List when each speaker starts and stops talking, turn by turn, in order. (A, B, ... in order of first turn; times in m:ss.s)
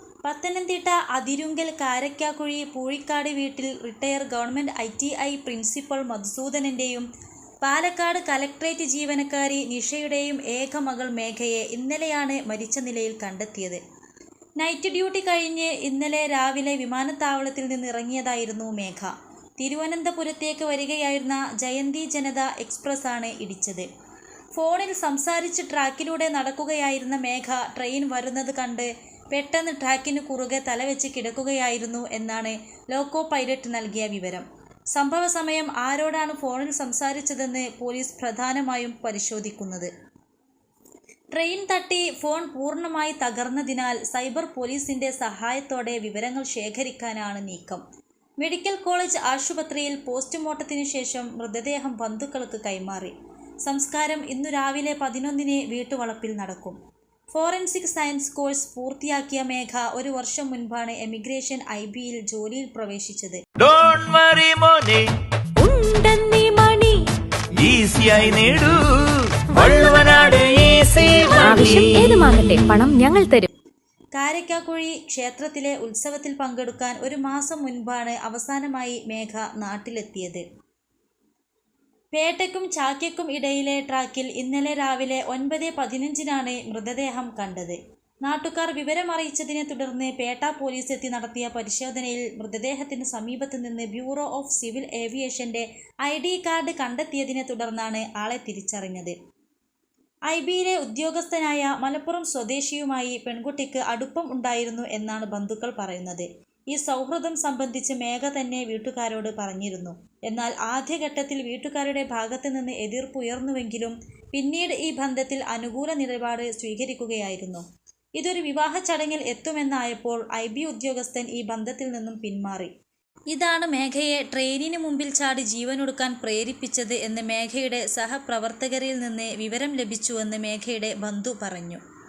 0:00.2-0:07.1 A
0:07.6-0:13.8 A
0:14.6-0:23.9 A
0:24.5-0:39.9 A
0:41.3-0:47.8 A
0:48.4-0:53.1 A
0:53.6-0:56.8 A
0:57.3-1:03.4 A
1:03.6-1:05.1 B
1:05.6-1:07.0 C
1:07.5-1:12.2 B
1:11.4-1:13.5 C
1:14.1-1:20.4 A
1:22.1-1:39.2 A
1:40.3-1:57.6 A
1:58.2-2:02.7 A
2:03.3-2:11.8 A